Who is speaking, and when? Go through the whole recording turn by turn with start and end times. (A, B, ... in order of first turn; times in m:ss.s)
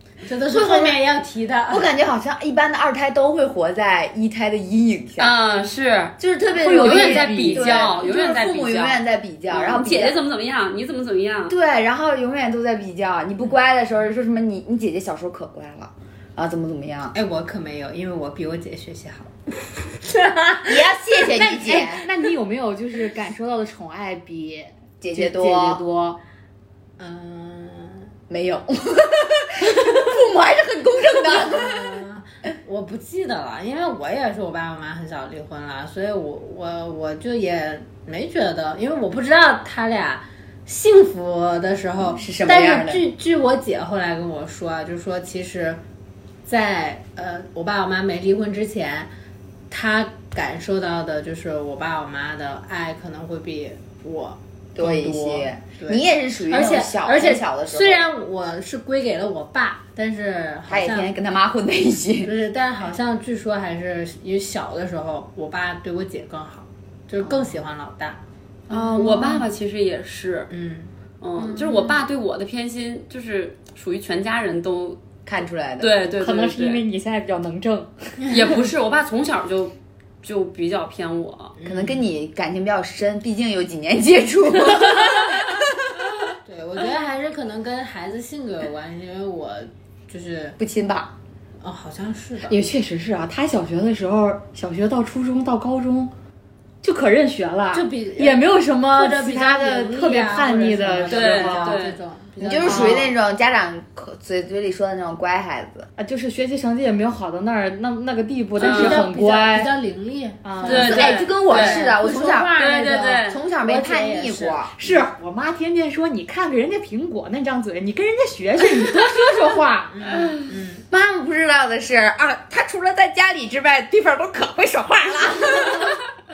0:00.2-0:01.9 A
0:00.5-0:01.0 B
0:01.7-0:05.3 B
0:05.2-0:11.6 C
0:06.2-0:10.2 B
0:06.8-0:07.8 D
0:11.5-0:17.2 B
0:17.1-0:20.7 A
0:20.6-0:22.1 B
0:21.4-0:26.2 D
0:25.0-0:25.8 B
0:27.0-0:28.1 A
0:28.3-0:32.0 B
0:31.1-0:45.8 A
0:42.2-0:43.0 B
0:46.5-0:49.1 A
0:49.7-1:01.1 A
0:54.8-0:58.1 B
1:00.7-1:02.3 B
1:02.2-1:08.2 A
1:08.7-1:10.5 C
1:10.5-1:12.0 A
1:11.2-1:15.0 C
1:15.2-1:15.9 B
1:15.8-1:16.9 C
1:16.2-1:18.2 D
1:18.3-1:21.5 C
1:21.6-1:22.0 A
1:21.6-1:26.0 B
1:26.4-1:30.6 A
1:30.6-1:31.1 B
1:31.6-1:32.7 A
1:32.5-1:36.1 D
1:36.8-1:41.8 D
1:37.7-1:43.1 A
1:41.1-1:42.0 C
1:42.4-1:45.9 B
1:42.7-1:43.0 C
1:46.0-1:49.7 D
1:48.6-1:55.0 A
1:48.6-1:49.0 C
1:50.4-1:51.1 D
1:50.6-1:51.9 C
1:50.7-1:54.7 B
1:52.6-1:53.4 C
1:54.8-2:00.3 D
1:59.9-2:00.8 A
2:00.9-2:06.0 B